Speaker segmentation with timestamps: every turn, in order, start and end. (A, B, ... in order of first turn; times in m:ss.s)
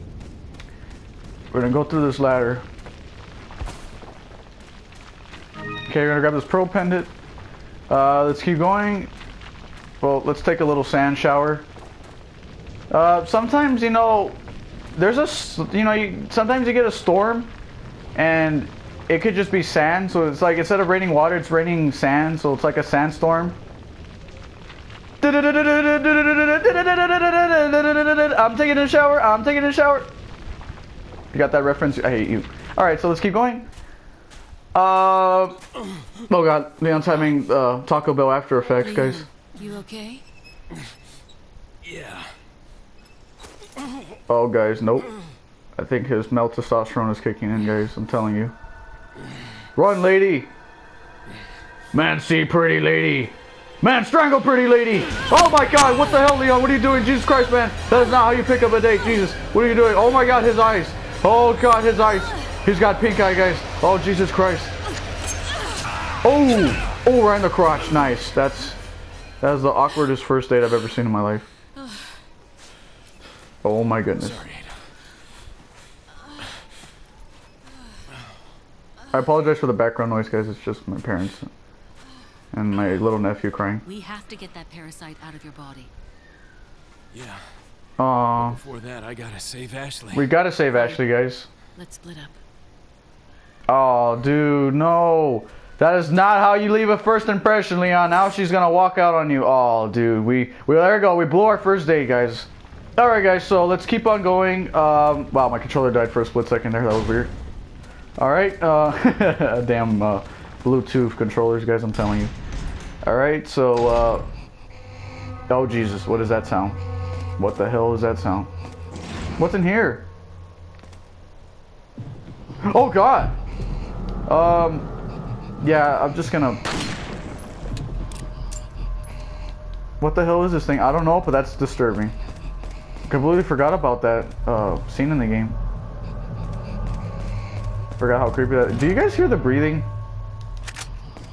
0:01.5-0:02.6 A
0:05.9-0:07.1 A
0:07.9-0:09.1 A
0:10.0-0:11.7 A
0:12.9-0:14.4 A
0:14.9-0:17.5 A
0:18.1-0:23.6 A
0:25.2-0:30.1 A
0:31.3-0:33.7 A
0:34.7-0:35.6 A
0:36.3-0:39.3 A
0:38.7-0:40.2 B
0:41.8-0:42.3 C
0:44.3-0:45.1 A
0:45.8-0:48.5 A
0:49.8-0:50.5 A
0:51.9-1:04.8 A
1:06.2-1:08.8 A
1:09.4-1:11.5 A
1:13.6-1:14.4 A
1:14.2-1:14.7 C
1:19.1-1:21.5 A
1:22.5-1:23.8 A
1:23.8-1:25.9 B
1:27.1-1:27.4 C
1:28.0-1:28.6 A
1:28.4-1:30.3 C
1:30.1-1:31.5 A
1:31.8-1:32.4 B
1:33.7-1:47.3 A
1:48.2-1:52.3 A
1:53.0-1:54.3 A
1:55.5-1:56.8 A
1:57.4-1:58.5 A
1:59.4-2:00.1 A
2:02.6-2:03.4 A
2:04.3-2:04.9 A
2:05.6-2:06.6 A
2:10.0-2:12.1 A
2:13.1-2:15.6 A
2:18.0-2:19.9 A